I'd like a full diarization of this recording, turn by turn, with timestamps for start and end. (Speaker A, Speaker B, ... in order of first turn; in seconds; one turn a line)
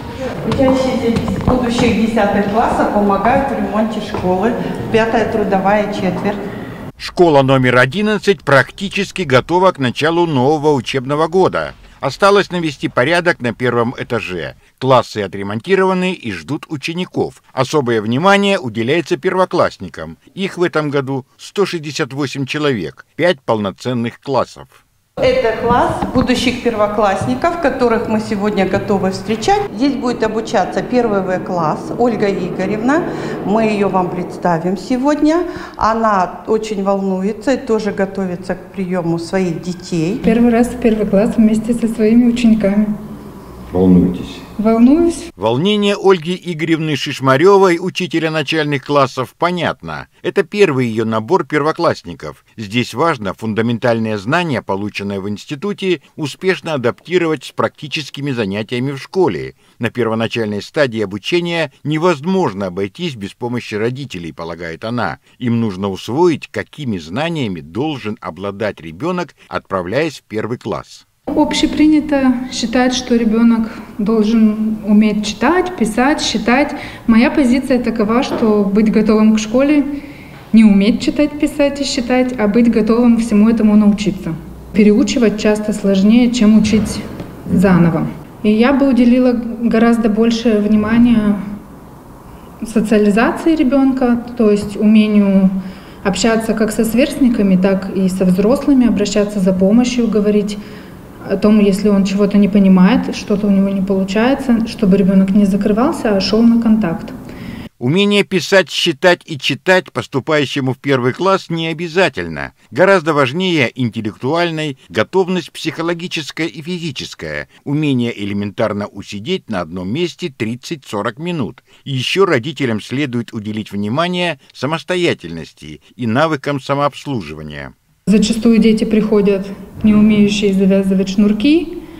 Speaker A: 0.4-6.4
Speaker B: 7.0-24.8
Speaker A: 25.2-40.2
Speaker C: 40.2-42.9
Speaker B: 43.7-44.4
Speaker C: 44.6-45.3
Speaker B: 45.4-71.0
Speaker C: 71.3-79.8
Speaker C: 80.5-91.4
Speaker C: 92.6-100.6
Speaker C: 101.3-107.1
Speaker B: 107.8-127.7
Speaker C: 128.1-131.8